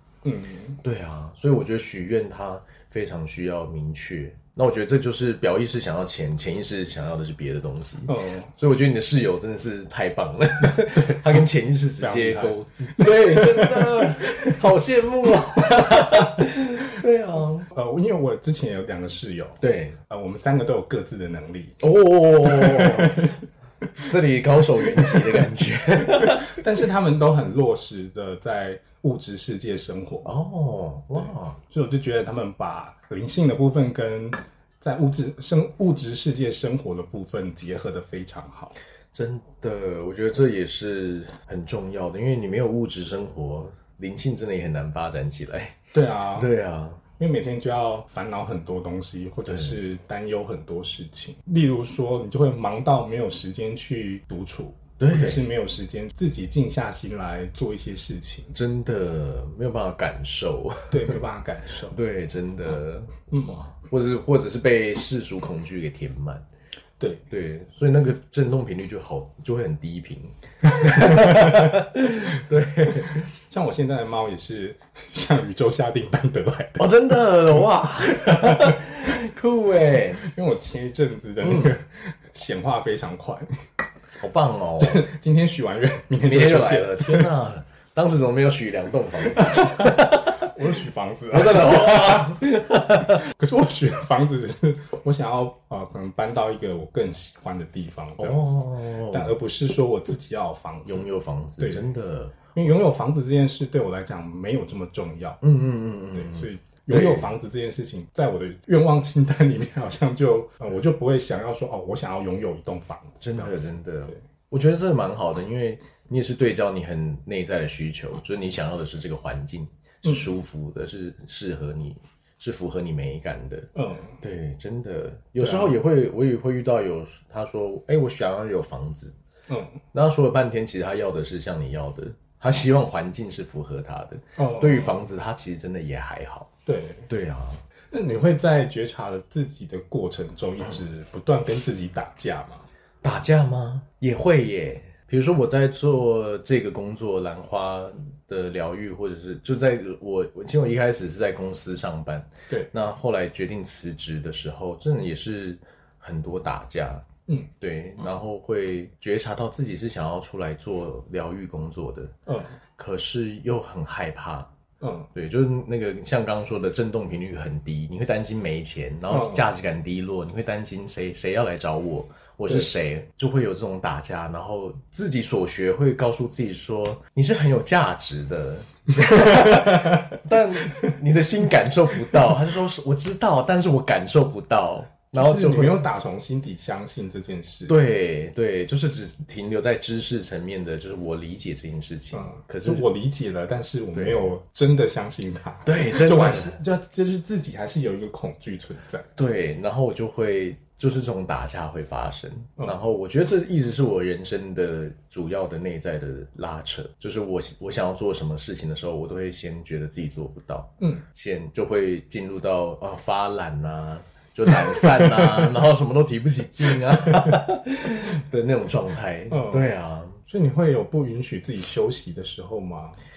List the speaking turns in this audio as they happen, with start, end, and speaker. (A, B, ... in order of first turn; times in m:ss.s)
0:00.2-0:00.8 A
0:00.8-0:17.7 B
0:08.1-0:08.5 A
0:10.7-0:11.4 A
0:12.0-0:14.6 A
0:15.7-0:16.4 A
0:17.7-0:21.8 A
0:19.6-0:20.0 B
0:21.8-0:23.3 B
0:22.4-0:23.4 A
0:24.0-0:26.6 B
0:26.2-0:30.3 A
0:30.2-0:31.6 B
0:31.7-0:38.7 A
0:39.1-0:45.8 B
0:45.9-0:46.5 A
0:46.3-0:47.0 B
0:47.2-0:58.6 A
0:49.5-0:49.7 B
0:55.0-0:55.4 B
0:58.5-1:01.2 B
1:00.9-1:02.0 A
1:01.9-1:06.4 B
1:03.3-1:03.6 A
1:07.3-1:13.2 B
1:10.7-1:11.8 A
1:12.8-1:17.1 A
1:16.8-1:20.2 B
1:17.8-1:18.8 A
1:20.2-1:23.5 A
1:21.4-1:21.7 B
1:24.2-1:25.0 B
1:24.8-1:27.3 A
1:26.2-1:30.5 B
1:29.4-1:32.4 A
1:31.3-1:33.2 B
1:33.0-1:38.4 A
1:38.2-1:39.3 B
1:39.1-1:41.9 A
1:40.8-1:42.3 B
1:42.5-1:45.4 A
1:45.4-1:47.3 B
1:46.1-1:54.2 A
1:53.2-2:03.7 B
2:03.7-2:04.2 A
2:04.2-2:09.1 B
2:05.4-2:05.8 A
2:09.5-2:09.8 A
2:09.9-2:16.5 B
2:14.4-2:15.0 A
2:16.6-2:17.1 A
2:17.1-2:17.6 B
2:17.9-2:22.7 A
2:23.0-2:37.0 B
2:37.6-2:42.1 B
2:42.3-2:42.6 A
2:42.8-2:44.5 B
2:44.8-2:45.1 A
2:45.1-3:05.8 B
2:49.1-2:49.4 A
2:59.4-3:00.2 A
3:05.1-3:07.8 A
3:07.7-3:12.8 B
3:12.1-3:19.1 A
3:13.9-3:14.3 B
3:15.6-3:16.6 B
3:19.2-3:40.2 B
3:35.0-3:35.3 A
3:39.3-3:39.7 A
3:40.2-3:43.0 A